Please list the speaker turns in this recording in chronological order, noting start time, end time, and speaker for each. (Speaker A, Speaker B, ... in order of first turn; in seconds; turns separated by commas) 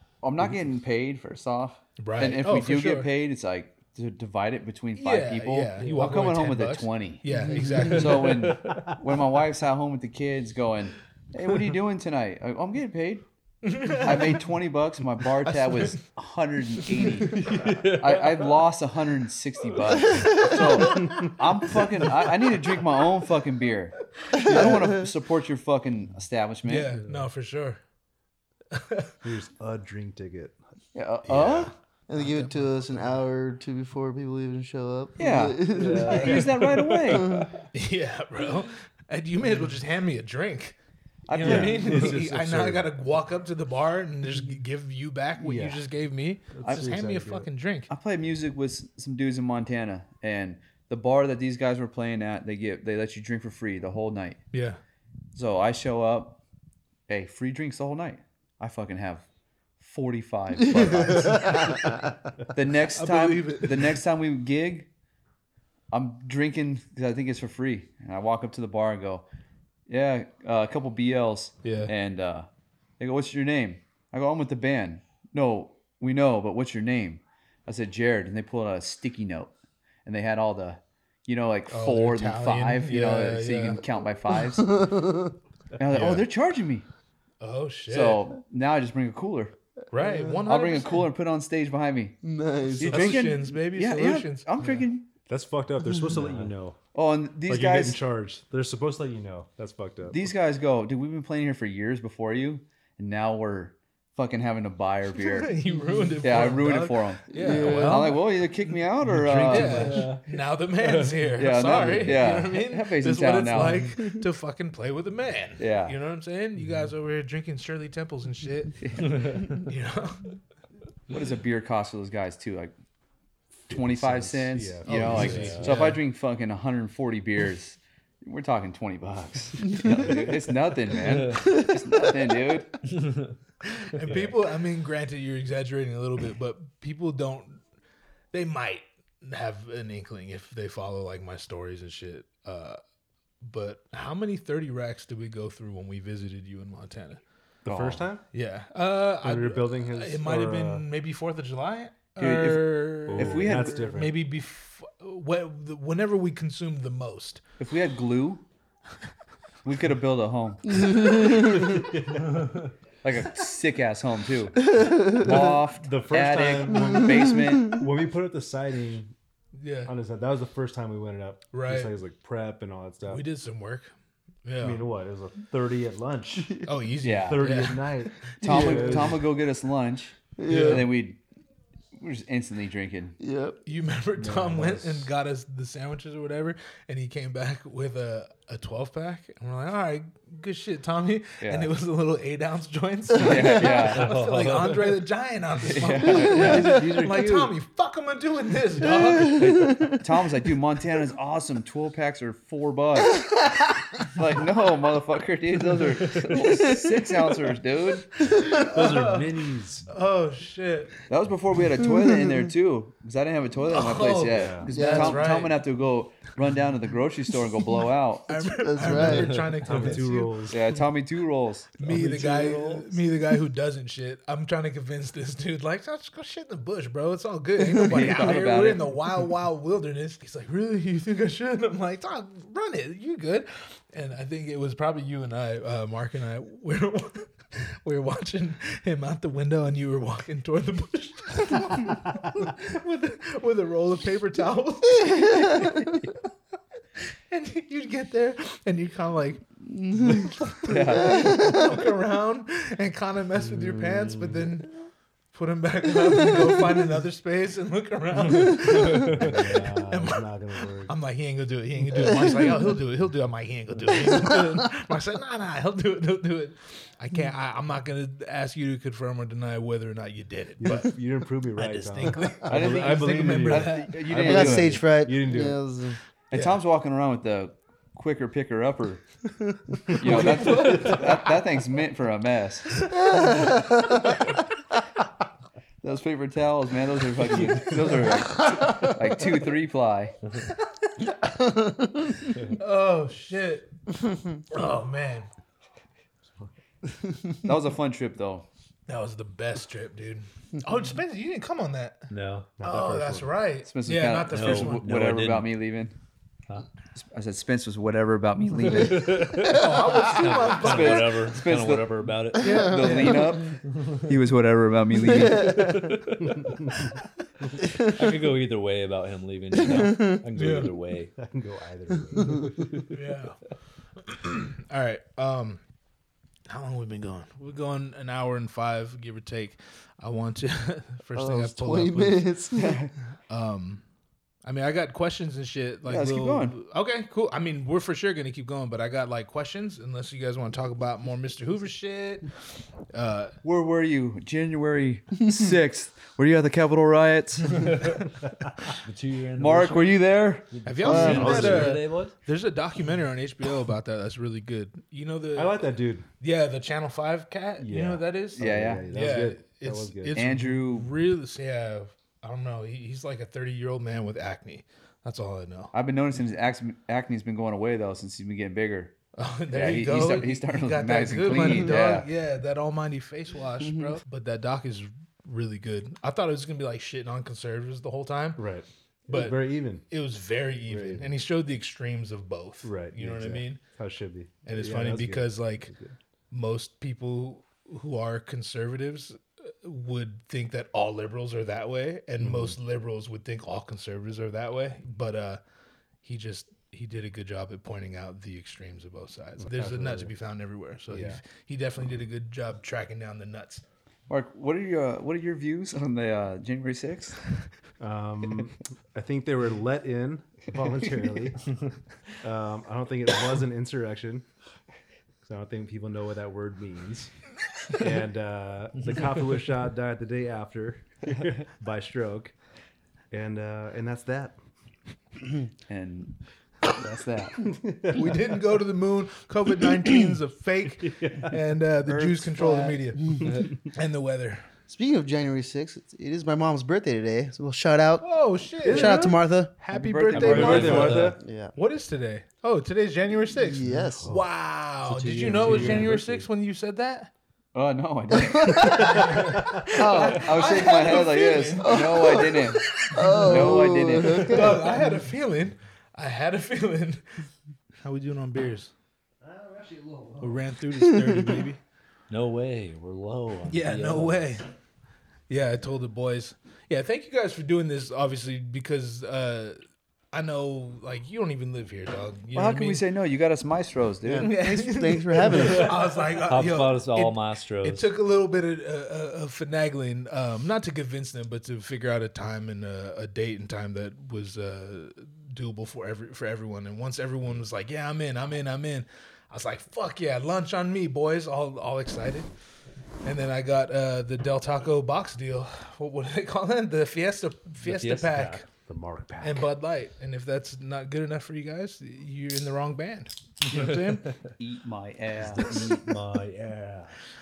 Speaker A: 0.2-13.2, Speaker B: 2.0-3.1, Speaker B: 4.9-8.4, Speaker C: 5.8-6.1, Speaker D: 7.3-8.1, Speaker C: 8.2-8.8, Speaker B: 13.6-14.4, Speaker A: 13.8-26.9, Speaker B: 15.4-16.0, Speaker C: 17.6-18.6, Speaker D: 20.2-20.6, Speaker B: 20.3-21.3, Speaker D: 24.3-25.1, Speaker B: 26.6-27.8, Speaker B: 28.7-29.1, Speaker E: 29.2-30.6, Speaker A: 30.9-31.7, Speaker B: 31.3-31.7, Speaker D: 32.1-37.5, Speaker A: 35.2-37.4, Speaker C: 35.6-37.2, Speaker B: 37.7-40.8, Speaker A: 41.3-42.2, Speaker B: 41.3-47.9, Speaker E: 41.4-42.9, Speaker E: 45.4-45.8, Speaker E: 46.5-47.5, Speaker A: 46.6-47.0, Speaker A: 47.9-54.4, Speaker B: 54.5-54.8, Speaker A: 55.3-56.4, Speaker A: 57.1-59.2, Speaker A: 59.8-62.0, Speaker D: 60.7-62.0, Speaker A: 62.5-64.9, Speaker B: 62.9-64.0, Speaker A: 65.9-69.3, Speaker A: 69.9-72.5, Speaker B: 71.6-71.9, Speaker A: 73.0-79.5, Speaker A: 80.0-84.8, Speaker B: 81.7-83.8, Speaker D: 84.3-85.3, Speaker A: 85.8-86.8, Speaker B: 85.9-86.2, Speaker B: 87.4-88.2, Speaker A: 87.9-89.5, Speaker B: 89.9-91.1, Speaker D: 90.0-90.4, Speaker A: 90.5-95.1, Speaker D: 92.2-93.2, Speaker B: 92.9-94.5, Speaker E: 95.3-96.8, Speaker C: 96.2-96.5, Speaker A: 96.9-98.0, Speaker E: 97.5-100.3, Speaker A: 100.1-105.6, Speaker B: 105.2-108.3, Speaker D: 105.8-106.0, Speaker A: 106.2-110.1, Speaker D: 107.3-108.2, Speaker B: 109.1-120.3, Speaker E: 109.5-110.1, Speaker C: 109.5-110.2, Speaker C: 110.8-111.2, Speaker A: 111.4-113.9, Speaker A: 115.6-116.0, Speaker E: 116.6-116.9, Speaker A: 118.8-119.2, Speaker C: 119.2-119.4, Speaker A: 121.1-122.8, Speaker E: 123.7-125.8, Speaker A: 123.7-132.8, Speaker B: 124.8-126.0, Speaker C: 125.2-125.7, Speaker C: 131.0-131.6, Speaker D: 131.2-132.4, Speaker C: 132.9-133.3, Speaker B: 133.7-137.6, Speaker B: 138.3-142.8, Speaker B: 143.4-147.2, Speaker E: 147.7-148.2, Speaker A: 147.7-148.1, Speaker B: 148.3-157.4, Speaker E: 149.2-150.9, Speaker A: 152.2-153.9, Speaker E: 153.1-154.2, Speaker A: 157.6-158.4, Speaker A: 159.6-161.2, Speaker D: 160.7-161.8, Speaker E: 161.7-162.6, Speaker A: 163.0-167.8, Speaker D: 164.8-165.5, Speaker E: 165.8-169.1, Speaker D: 167.1-167.8, Speaker B: 169.6-169.9, Speaker E: 169.9-173.3, Speaker B: 171.5-171.9, Speaker B: 173.1-173.9, Speaker B: 174.4-174.8, Speaker E: 174.6-179.2, Speaker B: 176.6-179.2, Speaker A: 177.0-177.5, Speaker A: 178.4-181.2, Speaker D: 180.4-180.9, Speaker B: 180.5-180.9, Speaker A: 182.0-183.2, Speaker D: 183.2-183.6, Speaker B: 183.7-199.5, Speaker E: 184.2-185.1, Speaker A: 191.4-191.7, Speaker A: 193.2-194.1, Speaker C: 193.6-195.0, Speaker A: 195.6-196.9, Speaker C: 196.3-197.5, Speaker A: 199.2-203.3, Speaker D: 199.7-200.0, Speaker A: 204.1-208.2, Speaker D: 206.7-207.0, Speaker B: 208.4-209.3, Speaker E: 208.5-209.9, Speaker B: 209.9-210.9, Speaker A: 211.1-218.4, Speaker B: 213.7-215.6, Speaker E: 214.3-214.7, Speaker D: 214.7-215.2, Speaker B: 218.3-220.4, Speaker D: 218.4-219.5, Speaker E: 218.8-220.8, Speaker C: 219.0-219.9, Speaker A: 220.5-221.8, Speaker B: 221.8-246.1, Speaker E: 221.9-222.9, Speaker A: 227.8-228.9, Speaker D: 245.3-245.7, Speaker B: 247.3-254.7, Speaker D: 249.9-250.3, Speaker A: 250.7-251.6, Speaker D: 251.1-251.8, Speaker B: 255.3-259.3, Speaker C: 258.6-259.4, Speaker E: 259.0-260.9, Speaker B: 259.9-260.3, Speaker B: 260.9-270.9, Speaker E: 270.6-275.6, Speaker B: 271.6-274.1, Speaker A: 272.5-274.8, Speaker D: 274.2-276.0, Speaker A: 276.3-279.0, Speaker A: 279.9-282.9, Speaker E: 279.9-281.0, Speaker B: 280.1-281.3, Speaker D: 282.9-284.3, Speaker A: 285.8-290.1, Speaker D: 291.5-292.1, Speaker B: 292.5-293.7, Speaker B: 294.5-295.3, Speaker A: 297.4-298.5, Speaker B: 298.9-302.1, Speaker C: 302.1-302.5, Speaker E: 302.6-303.4, Speaker B: 302.6-304.9, Speaker A: 303.6-305.9, Speaker C: 304.3-305.5, Speaker A: 307.0-309.5, Speaker C: 308.7-312.6, Speaker B: 309.4-311.2, Speaker A: 310.4-315.7, Speaker D: 312.4-313.6, Speaker B: 312.4-313.2, Speaker C: 313.7-314.0, Speaker D: 315.0-316.0, Speaker C: 315.2-316.5, Speaker C: 317.8-321.1, Speaker D: 319.7-320.1, Speaker B: 320.4-320.7, Speaker E: 321.2-322.7, Speaker B: 322.9-323.4, Speaker B: 324.0-325.6, Speaker B: 326.5-332.4, Speaker D: 331.2-332.8, Speaker A: 332.5-332.9, Speaker B: 333.3-333.8, Speaker B: 334.4-342.3, Speaker A: 335.9-336.6, Speaker B: 342.9-343.4, Speaker A: 343.4-348.0, Speaker C: 348.8-352.1, Speaker A: 349.4-351.4, Speaker B: 350.6-355.7, Speaker D: 350.9-351.4, Speaker E: 350.9-351.8, Speaker E: 355.4-356.1, Speaker B: 356.2-365.7, Speaker E: 357.6-360.2, Speaker A: 358.4-358.9, Speaker A: 360.1-360.9, Speaker A: 365.7-368.9, Speaker B: 369.2-378.4, Speaker A: 369.5-372.1, Speaker D: 373.6-374.0, Speaker E: 378.4-379.8, Speaker B: 379.1-383.6, Speaker E: 380.7-381.1, Speaker E: 382.6-385.9, Speaker B: 384.5-385.7, Speaker B: 386.3-395.4, Speaker E: 392.2-392.6, Speaker B: 396.0-403.6, Speaker E: 399.4-400.1, Speaker E: 400.9-401.2, Speaker A: 404.1-407.2, Speaker E: 407.8-411.6, Speaker E: 412.2-414.3, Speaker E: 415.2-417.1, Speaker E: 417.7-422.3, Speaker E: 423.1-424.4, Speaker A: 425.7-426.1, Speaker A: 426.7-427.5, Speaker E: 427.6-428.2, Speaker B: 427.9-433.2, Speaker E: 430.7-431.4, Speaker A: 431.9-432.8, Speaker B: 433.7-434.4, Speaker D: 434.7-439.6, Speaker B: 438.0-447.1, Speaker E: 438.6-439.1, Speaker A: 439.7-441.1, Speaker C: 440.1-441.2, Speaker E: 440.1-441.2, Speaker D: 441.2-441.5, Speaker D: 443.4-444.1, Speaker E: 443.6-444.2, Speaker C: 444.9-446.0, Speaker E: 445.0-446.2, Speaker A: 447.5-449.3, Speaker D: 448.2-454.9, Speaker B: 448.2-457.0, Speaker A: 449.9-454.5, Speaker B: 457.8-458.7, Speaker E: 459.2-460.4, Speaker B: 460.2-461.6, Speaker C: 462.1-464.2, Speaker B: 463.5-464.4, Speaker B: 465.3-469.6, Speaker B: 470.1-472.8, Speaker A: 472.4-474.4, Speaker D: 474.0-475.7, Speaker B: 474.2-492.3, Speaker C: 476.2-477.9, Speaker B: 493.0-498.5, Speaker C: 497.6-498.4, Speaker E: 498.6-499.4, Speaker B: 499.2-504.2, Speaker A: 504.4-505.6, Speaker C: 505.4-506.9, Speaker B: 505.4-505.7